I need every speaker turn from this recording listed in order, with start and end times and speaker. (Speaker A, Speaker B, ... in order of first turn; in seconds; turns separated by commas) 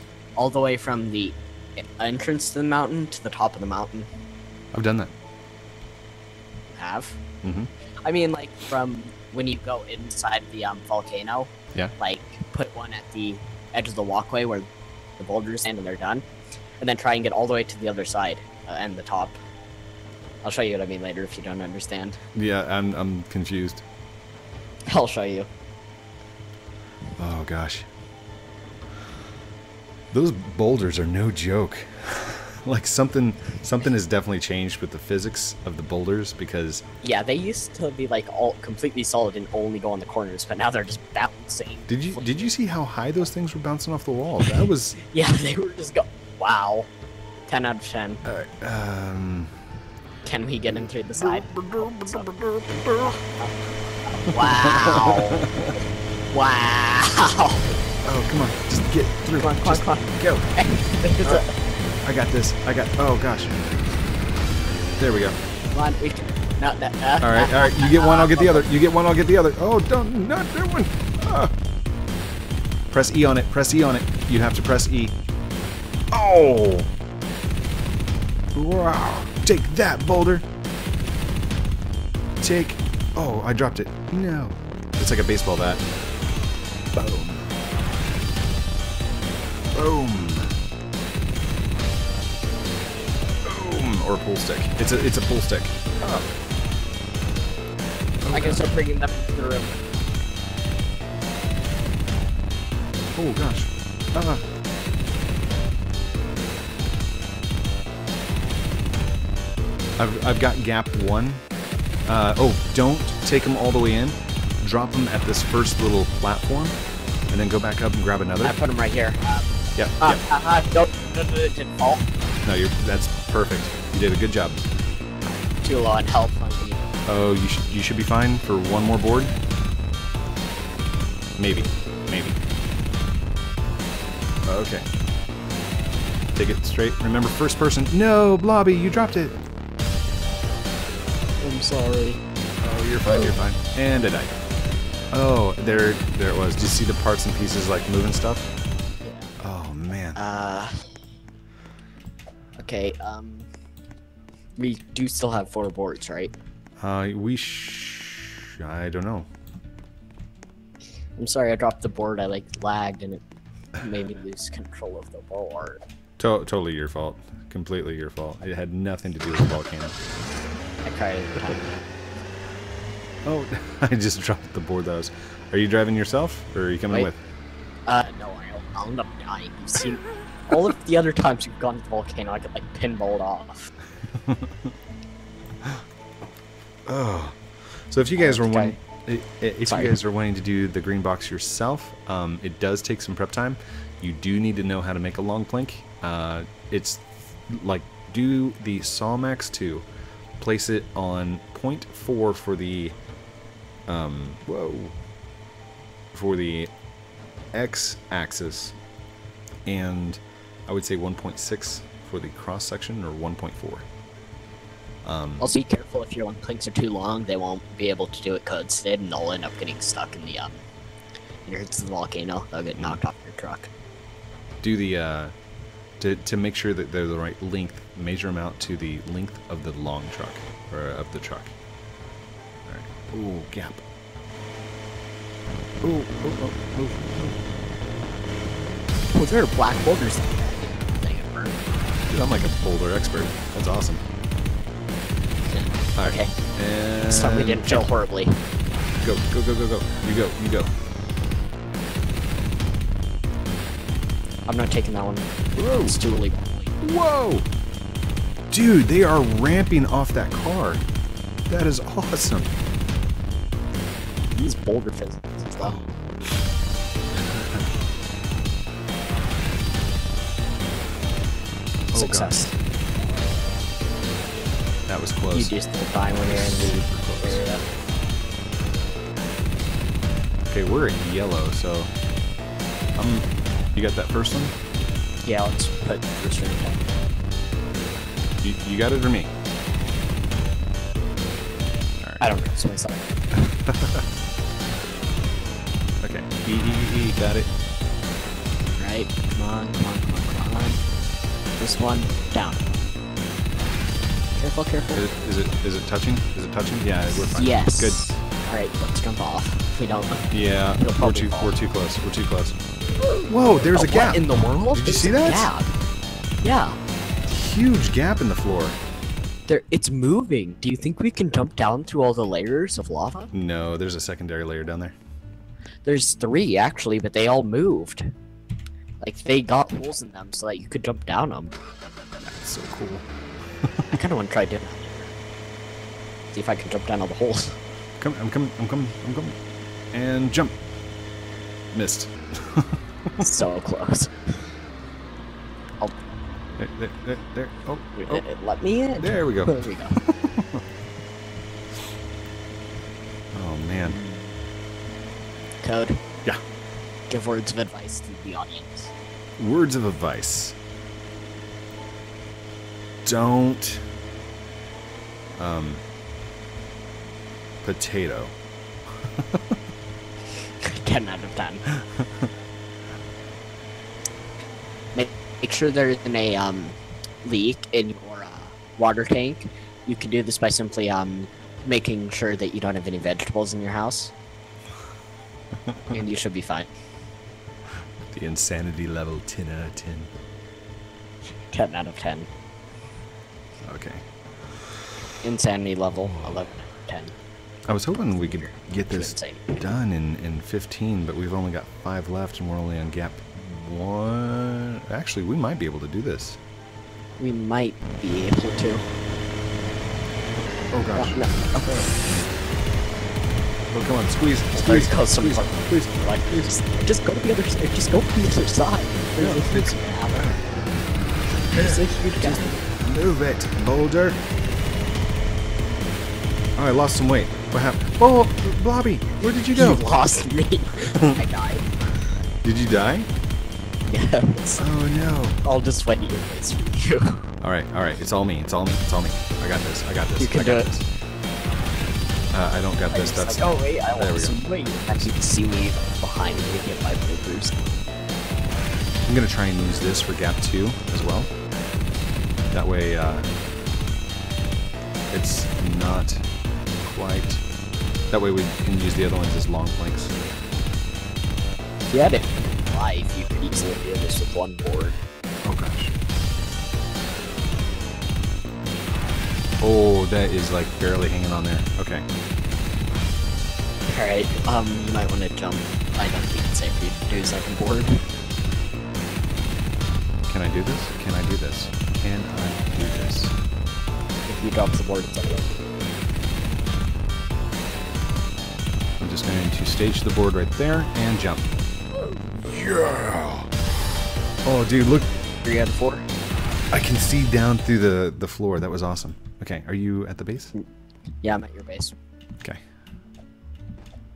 Speaker A: 0.4-4.1, Speaker B: 4.7-5.1, Speaker A: 6.8-7.2, Speaker B: 7.4-7.7, Speaker A: 8.1-14.7, Speaker A: 15.2-16.2, Speaker A: 16.8-19.4, Speaker A: 20.4-22.2, Speaker B: 22.4-23.8, Speaker A: 24.9-25.5, Speaker B: 27.2-27.9, Speaker B: 30.1-36.9, Speaker A: 37.0-42.5, Speaker B: 41.9-45.0, Speaker A: 45.0-46.9, Speaker A: 47.5-48.2, Speaker B: 48.2-49.5, Speaker A: 50.2-52.3, Speaker B: 51.2-53.2, Speaker A: 53.1-53.5, Speaker A: 54.1-55.5, Speaker B: 54.3-55.8, Speaker A: 56.3-57.7, Speaker B: 58.0-60.5, Speaker A: 59.4-61.6, Speaker B: 62.0-63.8, Speaker B: 65.0-65.4, Speaker A: 65.7-68.7, Speaker B: 67.2-71.5, Speaker B: 72.9-75.2, Speaker B: 76.1-76.9, Speaker B: 78.5-80.5, Speaker B: 82.4-85.8, Speaker B: 86.9-87.5, Speaker B: 89.7-90.6, Speaker B: 93.4-96.3, Speaker B: 98.2-98.7, Speaker A: 98.3-99.7, Speaker B: 103.2-104.5, Speaker B: 110.0-111.4, Speaker B: 112.0-116.8, Speaker B: 117.3-118.6, Speaker A: 118.4-122.1, Speaker B: 119.8-120.2, Speaker B: 122.4-124.6, Speaker A: 125.6-126.9, Speaker B: 127.1-129.3, Speaker B: 131.4-132.4, Speaker B: 134.4-134.9, Speaker B: 136.3-139.4, Speaker A: 141.4-142.2, Speaker B: 142.6-144.3, Speaker B: 145.1-148.5, Speaker A: 149.0-149.3, Speaker B: 149.4-150.2, Speaker A: 150.2-150.9, Speaker A: 152.6-153.5, Speaker A: 154.6-156.3, Speaker B: 156.8-159.3, Speaker A: 161.2-163.2, Speaker A: 163.8-165.8, Speaker B: 166.2-170.0, Speaker A: 170.8-171.8, Speaker B: 173.2-177.2, Speaker A: 177.9-183.7, Speaker B: 184.2-184.7, Speaker B: 186.9-199.8, Speaker A: 188.2-188.8, Speaker A: 189.7-189.9, Speaker B: 200.4-203.0, Speaker B: 203.9-205.0, Speaker B: 206.1-206.7, Speaker B: 207.5-208.8, Speaker B: 209.7-213.9, Speaker B: 215.0-215.5, Speaker A: 215.4-220.6, Speaker A: 221.4-223.7, Speaker B: 222.8-223.0, Speaker B: 224.6-225.3, Speaker B: 226.0-231.5, Speaker B: 232.7-233.8, Speaker B: 235.8-237.4, Speaker A: 239.1-241.6, Speaker B: 242.1-244.0, Speaker A: 245.5-246.3, Speaker B: 246.0-247.9, Speaker A: 247.0-248.4, Speaker B: 249.0-250.7, Speaker A: 254.5-256.8, Speaker B: 255.6-256.0, Speaker B: 256.8-257.5, Speaker B: 258.5-260.8, Speaker B: 261.5-262.5, Speaker A: 264.4-265.8, Speaker B: 265.6-265.9, Speaker B: 267.1-267.6, Speaker B: 271.9-272.4, Speaker A: 271.9-272.5, Speaker B: 274.9-275.5, Speaker A: 275.3-277.6, Speaker B: 276.1-277.4, Speaker B: 280.5-281.9, Speaker B: 283.0-284.6, Speaker A: 285.2-286.9, Speaker B: 288.4-289.3, Speaker B: 292.0-292.2, Speaker A: 292.2-293.1, Speaker B: 293.4-294.1, Speaker B: 296.0-297.5, Speaker A: 298.8-300.8, Speaker A: 301.6-302.7, Speaker A: 304.4-305.1, Speaker B: 304.9-308.2, Speaker A: 307.3-311.6, Speaker B: 310.3-312.6, Speaker B: 313.3-315.5, Speaker A: 313.7-315.8, Speaker A: 316.4-316.8, Speaker B: 317.3-318.8, Speaker A: 319.5-323.3, Speaker B: 323.3-324.9, Speaker A: 325.9-328.1, Speaker A: 329.0-331.6, Speaker B: 332.2-333.1, Speaker A: 333.9-335.2, Speaker A: 336.3-337.6, Speaker B: 338.0-339.4, Speaker B: 339.9-340.6, Speaker B: 341.7-343.1, Speaker A: 343.2-344.3, Speaker B: 346.6-348.2, Speaker A: 348.0-350.0, Speaker B: 349.0-350.6, Speaker B: 353.3-354.0, Speaker A: 353.8-354.4, Speaker A: 355.6-356.0, Speaker A: 357.1-358.9, Speaker B: 359.4-360.6, Speaker B: 363.0-363.9, Speaker B: 365.4-365.8, Speaker B: 367.6-368.4, Speaker B: 369.1-369.6, Speaker A: 370.6-371.6, Speaker B: 371.8-372.3, Speaker A: 374.9-384.1, Speaker A: 385.9-386.7, Speaker B: 388.1-390.1, Speaker A: 391.5-392.3, Speaker B: 393.6-394.1, Speaker A: 395.2-397.1, Speaker B: 396.0-396.3, Speaker B: 397.7-406.4, Speaker A: 397.9-399.6, Speaker A: 407.2-408.9, Speaker B: 410.7-412.0, Speaker A: 410.9-411.9, Speaker B: 413.7-416.5, Speaker A: 414.5-420.3, Speaker B: 419.2-420.4, Speaker B: 421.5-424.2, Speaker A: 421.5-422.6, Speaker B: 426.6-429.8, Speaker A: 429.5-431.7, Speaker B: 430.8-431.1, Speaker B: 432.4-433.1, Speaker A: 433.9-434.7, Speaker B: 434.6-435.4, Speaker A: 435.4-437.3, Speaker B: 437.4-440.9, Speaker A: 440.2-440.7, Speaker B: 442.3-444.4, Speaker A: 442.9-447.6, Speaker B: 449.1-451.3, Speaker B: 452.5-453.3, Speaker B: 455.1-456.3, Speaker B: 456.8-457.4, Speaker B: 458.1-460.2, Speaker A: 461.9-465.0, Speaker B: 465.4-466.0, Speaker B: 469.6-472.1, Speaker A: 473.9-478.0, Speaker B: 480.3-483.4, Speaker A: 484.3-485.6, Speaker B: 489.0-493.7, Speaker B: 494.4-495.1, Speaker A: 495.4-496.1, Speaker B: 496.7-500.5, Speaker A: 501.2-502.0